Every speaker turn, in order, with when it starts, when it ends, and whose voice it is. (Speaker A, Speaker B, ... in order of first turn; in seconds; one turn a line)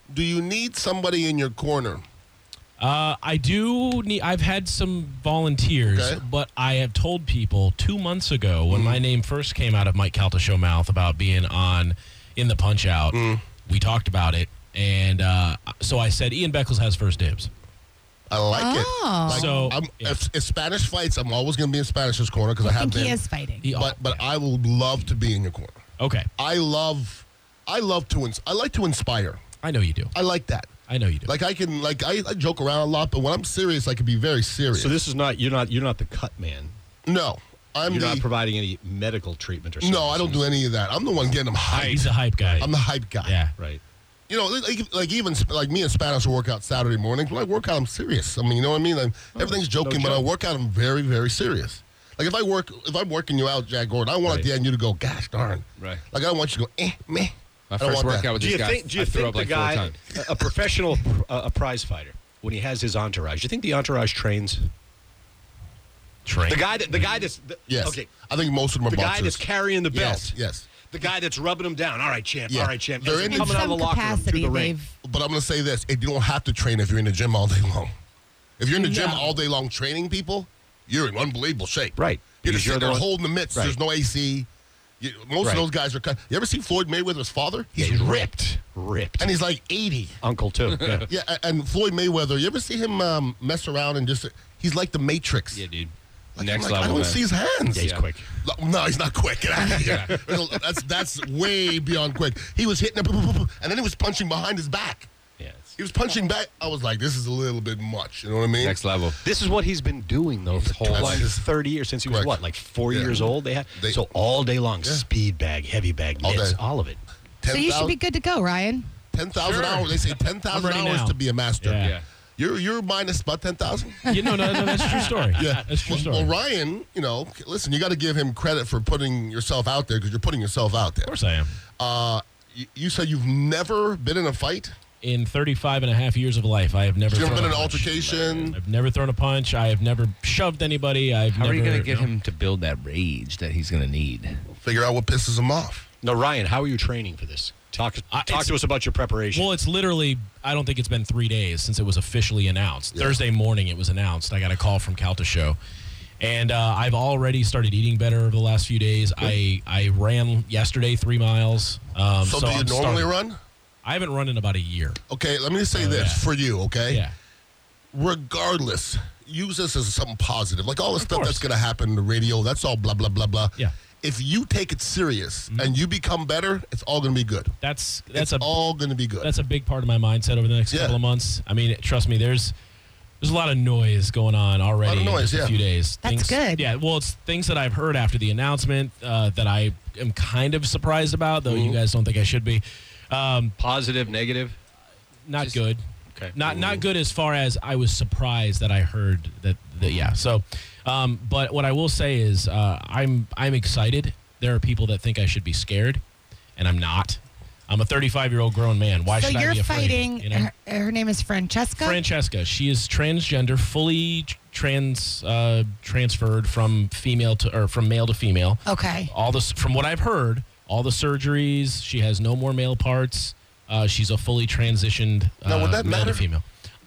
Speaker A: 0.1-2.0
Speaker B: 2.8-17.5
Speaker A: 5.9-6.2
Speaker A: 8.7-9.0
Speaker A: 13.1-13.4
Speaker A: 18.3-23.2
Speaker C: 18.5-19.7
Speaker B: 19.3-20.2
Speaker C: 22.6-23.7
Speaker B: 23.6-24.2
Speaker A: 23.7-25.8
Speaker B: 26.0-26.3
Speaker A: 26.4-29.4
Speaker B: 29.6-30.1
Speaker A: 30.1-30.7
Speaker B: 30.9-31.3
Speaker A: 31.2-35.0
Speaker D: 34.7-36.7
Speaker A: 37.1-38.3
Speaker D: 37.9-40.5
Speaker A: 39.8-43.4
Speaker B: 41.7-42.7
Speaker D: 41.8-42.7
Speaker B: 43.2-43.5
Speaker A: 44.3-58.3
Speaker D: 49.4-50.2
Speaker E: 57.7-60.1
Speaker D: 58.3-64.7
Speaker B: 66.3-66.7
Speaker D: 66.4-68.1
Speaker A: 67.7-70.7
Speaker D: 68.9-74.8
Speaker A: 72.5-73.7
Speaker C: 73.2-74.9
Speaker A: 75.0-77.9
Speaker A: 78.6-84.5
Speaker C: 78.8-79.2
Speaker D: 82.0-83.8
Speaker A: 85.0-88.3
Speaker D: 87.8-89.3
Speaker A: 89.2-90.2
Speaker D: 90.2-91.1
Speaker A: 91.1-95.6
Speaker E: 95.5-97.2
Speaker A: 96.4-105.1
Speaker D: 97.7-98.3
Speaker E: 97.8-98.1
Speaker E: 99.8-100.2
Speaker D: 105.4-105.7
Speaker A: 105.8-108.8
Speaker E: 108.6-109.2
Speaker D: 109.2-117.0
Speaker E: 110.5-111.2
Speaker A: 110.7-111.4
Speaker A: 112.1-112.4
Speaker A: 112.9-114.0
Speaker A: 116.2-116.6
Speaker A: 117.4-118.0
Speaker C: 117.5-118.9
Speaker A: 119.1-124.1
Speaker E: 119.4-119.8
Speaker B: 120.5-122.0
Speaker B: 124.1-126.3
Speaker A: 125.4-131.2
Speaker B: 131.1-131.5
Speaker A: 131.8-134.7
Speaker B: 135.0-142.1
Speaker A: 137.1-138.6
Speaker E: 141.3-144.4
Speaker A: 144.5-145.9
Speaker D: 146.0-149.5
Speaker B: 148.1-148.6
Speaker B: 149.3-155.6
Speaker A: 152.9-153.2
Speaker B: 156.2-163.1
Speaker A: 162.2-163.4
Speaker B: 163.8-165.0
Speaker A: 165.1-167.0
Speaker B: 165.7-166.3
Speaker B: 166.9-167.1
Speaker A: 167.9-177.6
Speaker B: 171.0-171.4
Speaker B: 175.5-175.8
Speaker B: 177.6-178.5
Speaker A: 178.1-179.3
Speaker B: 179.2-182.5
Speaker A: 180.7-181.0
Speaker B: 183.2-193.6
Speaker A: 184.8-185.6
Speaker C: 186.0-186.7
Speaker A: 191.5-191.8
Speaker D: 193.6-194.6
Speaker B: 195.3-195.8
Speaker B: 196.3-206.0
Speaker A: 196.4-196.8
Speaker B: 206.6-210.5
Speaker C: 209.1-212.0
Speaker B: 211.8-226.4
Speaker C: 218.7-219.1
Speaker A: 225.4-226.3